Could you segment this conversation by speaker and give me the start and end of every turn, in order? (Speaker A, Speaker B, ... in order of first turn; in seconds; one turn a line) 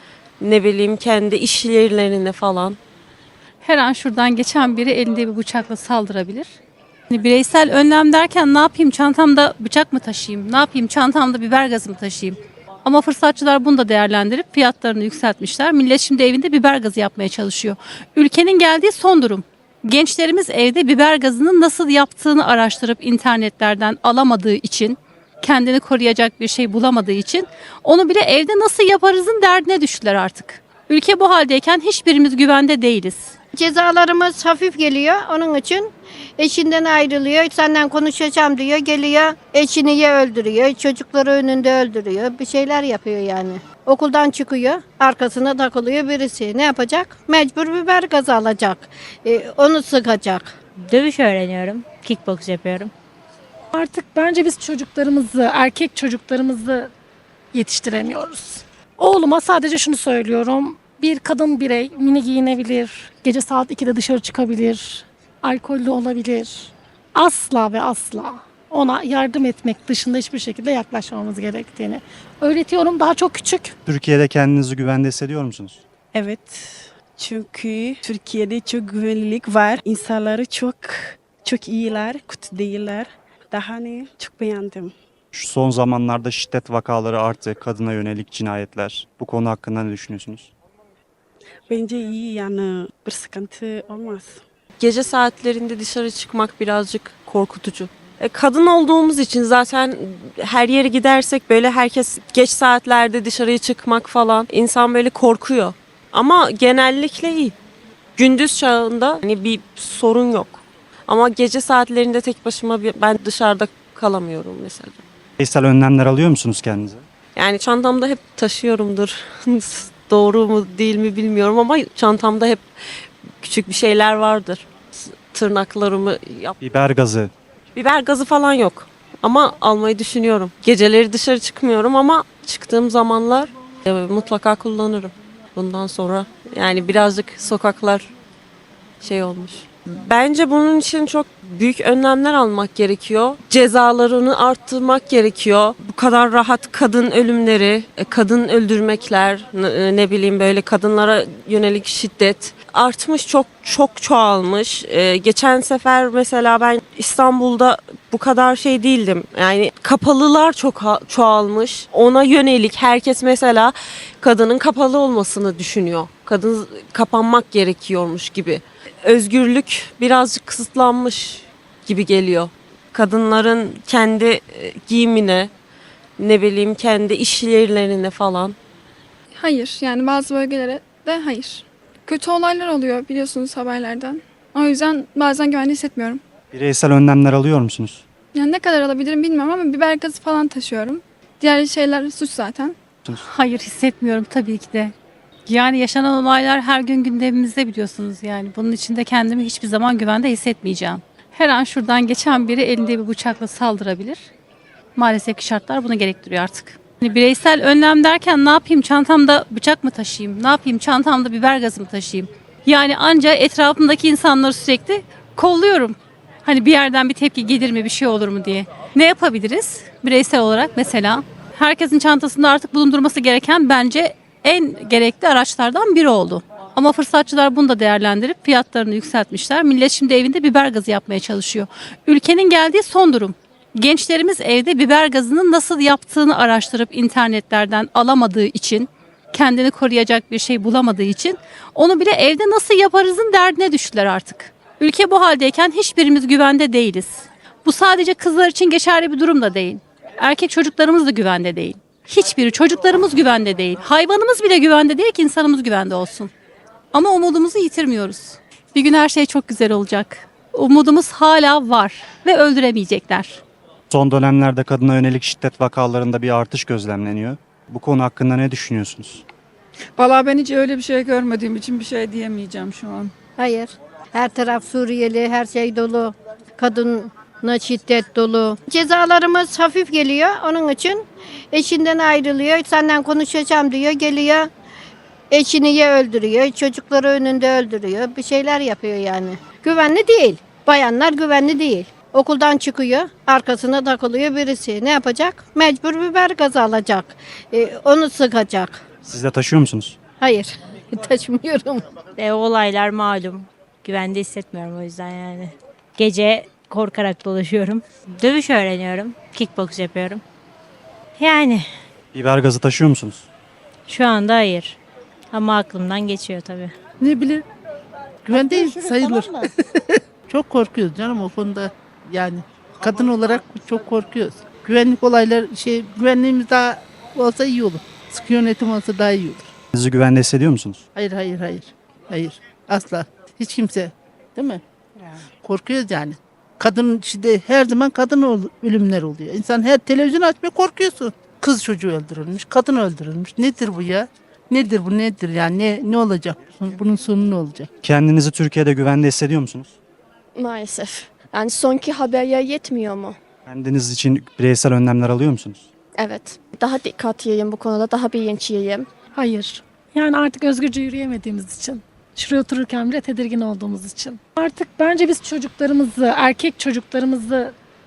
Speaker A: 0.4-2.8
Speaker B: 3.6-6.5
Speaker B: 7.1-33.3
Speaker C: 33.5-50.5
Speaker D: 50.9-52.9
Speaker E: 53.7-56.9
Speaker E: 57.5-73.7
Speaker F: 73.8-75.8
Speaker G: 76.1-84.9
Speaker F: 85.3-90.5
Speaker G: 91.7-94.2
Speaker A: 94.8-107.5
Speaker A: 108.2-115.0
Speaker F: 115.4-117.0
Speaker A: 117.3-122.6
Speaker A: 123.4-126.6
Speaker F: 126.6-127.3
Speaker A: 127.7-138.1
Speaker A: 139.0-175.5
Speaker A: 176.2-178.6
Speaker H: 179.3-186.2
Speaker F: 186.5-188.0
Speaker H: 188.3-192.8
Speaker B: 193.1-194.9
Speaker B: 195.5-204.3
Speaker B: 204.9-256.3
Speaker B: 256.9-263.4
Speaker F: 263.9-269.2
Speaker I: 269.9-273.1
Speaker C: 273.4-284.5
Speaker C: 285.3-298.8
Speaker F: 299.0-300.0
Speaker C: 300.2-301.8
Speaker D: 302.2-310.2
Speaker D: 311.2-311.7
Speaker F: 312.1-313.2
Speaker D: 313.9-314.8
Speaker D: 315.3-316.7
Speaker J: 317.0-317.4
Speaker J: 318.2-319.5
Speaker J: 320.3-329.5
Speaker F: 329.7-330.8
Speaker J: 330.9-334.6
Speaker J: 335.4-347.7
Speaker F: 347.8-349.8
Speaker K: 350.4-353.2
Speaker F: 353.5-355.6
Speaker K: 355.9-358.9
Speaker E: 359.1-367.5